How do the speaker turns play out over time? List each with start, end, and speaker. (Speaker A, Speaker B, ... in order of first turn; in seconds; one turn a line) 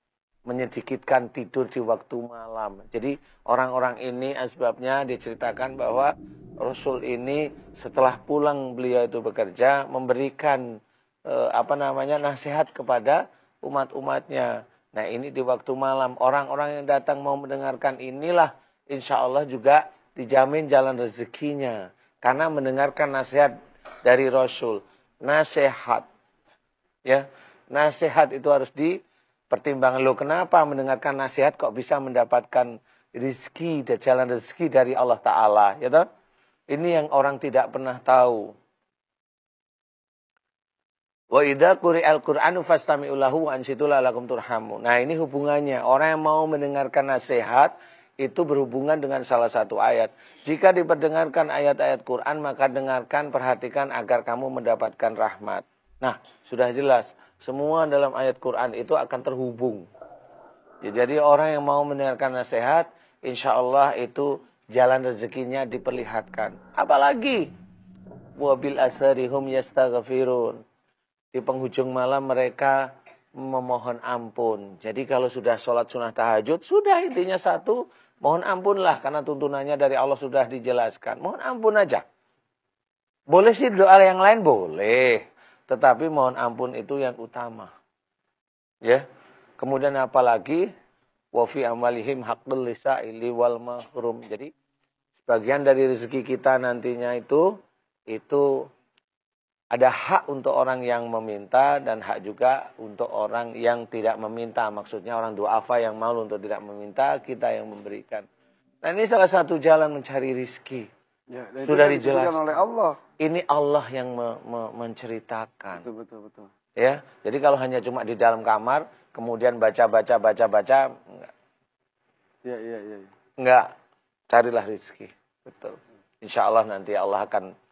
Speaker A: 0.5-10.6
Speaker A: 11.3-26.1
Speaker A: 27.1-29.0
Speaker A: 29.5-36.0
Speaker A: 36.7-38.5
Speaker A: 41.3-59.9
Speaker A: 60.8-67.5
Speaker A: 68.4-70.6
Speaker A: 71.3-72.8
Speaker A: 73.4-82.0
Speaker A: 83.3-87.7
Speaker A: 89.6-90.7
Speaker A: 91.3-94.5
Speaker A: 95.2-97.5
Speaker A: 98.1-98.7
Speaker A: 99.7-108.3
Speaker A: 108.8-110.9
Speaker B: 111.3-113.0
Speaker A: 111.6-112.6
Speaker A: 113.2-115.9
Speaker B: 115.8-116.5
Speaker A: 116.8-121.3
Speaker B: 122.4-123.1
Speaker A: 123.4-123.7
Speaker A: 124.3-127.5